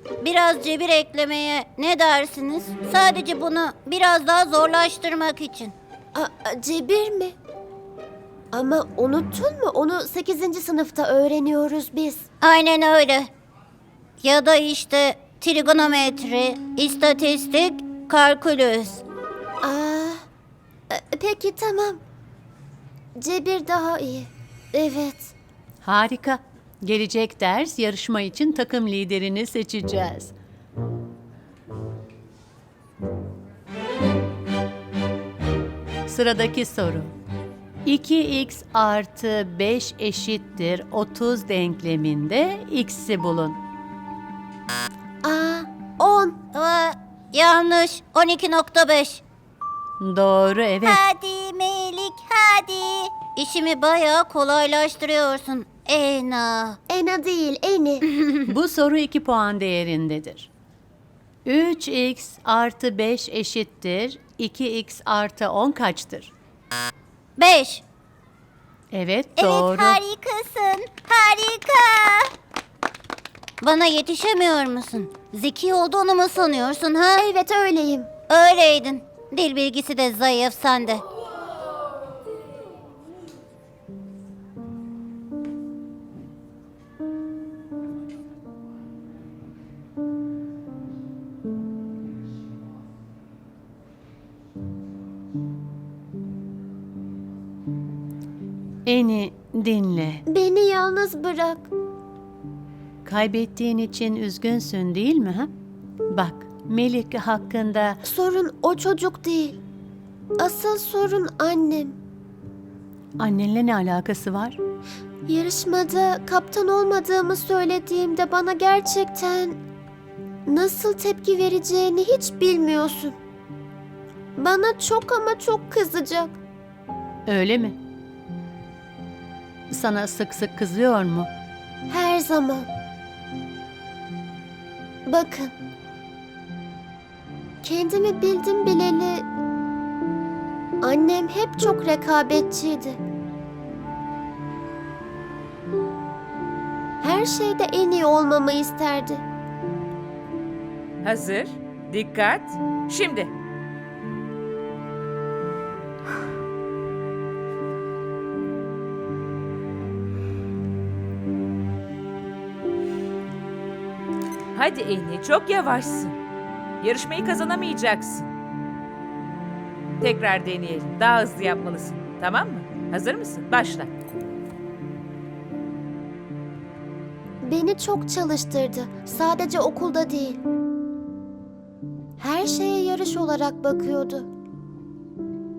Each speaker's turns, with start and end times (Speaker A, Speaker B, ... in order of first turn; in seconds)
Speaker A: 0.2-5.7, 12.4-13.3, 14.2-19.0, 46.6-49.2, 50.9-56.7, 67.4-67.8, 69.4-72.2, 73.6-77.2, 78.3-81.0
Speaker B: 6.1-7.3, 8.5-12.2, 19.6-20.2, 20.9-22.0, 23.2-25.3, 45.2-46.4, 56.9-58.0, 77.2-78.1, 100.3-101.7, 108.0-109.6, 110.4-111.9, 115.2-119.6, 120.5-123.1, 124.3-126.3, 131.9-132.7, 135.1-135.5, 137.6-139.2, 140.8-143.0, 147.0-149.2, 177.4-180.4, 182.2-184.3
Speaker C: 25.8-30.3, 36.1-37.1, 37.8-43.6, 50.0-51.0, 58.5-60.5, 61.5-66.3, 68.9-70.0, 98.8-100.2, 103.0-105.5, 106.1-108.0, 113.2-114.6, 127.3-127.8, 129.7-131.3
Speaker D: 151.0-153.3, 164.5-166.2, 166.8-168.3, 170.0-173.9